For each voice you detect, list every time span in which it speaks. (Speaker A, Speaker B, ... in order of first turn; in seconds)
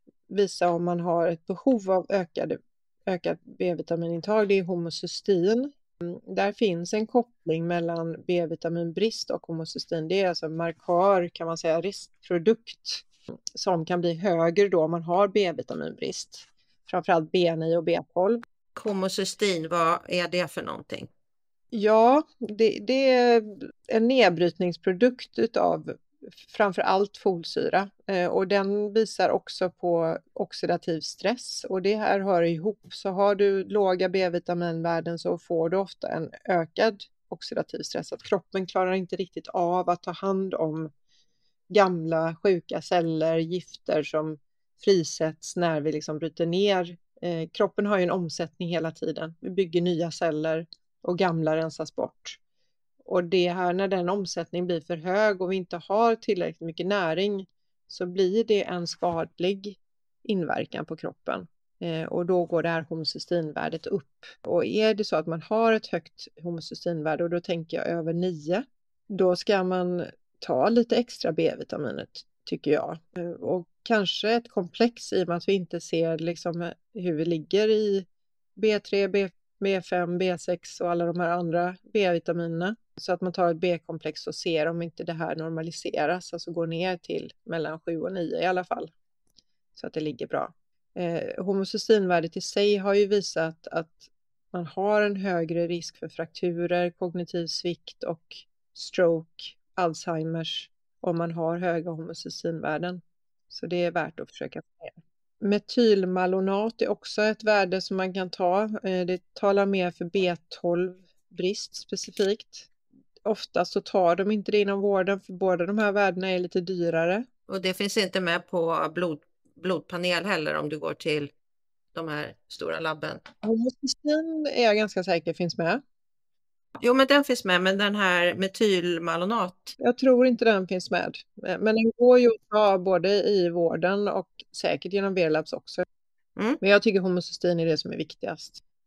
Speaker A: 0.3-18.4, 21.7-40.9, 41.7-52.4, 53.0-78.0, 78.6-88.9, 89.8-112.7, 113.2-117.2, 123.4-125.8, 129.8-135.8, 136.6-138.6
Speaker B: 18.8-21.1, 117.5-121.3, 121.9-123.2, 126.8-129.7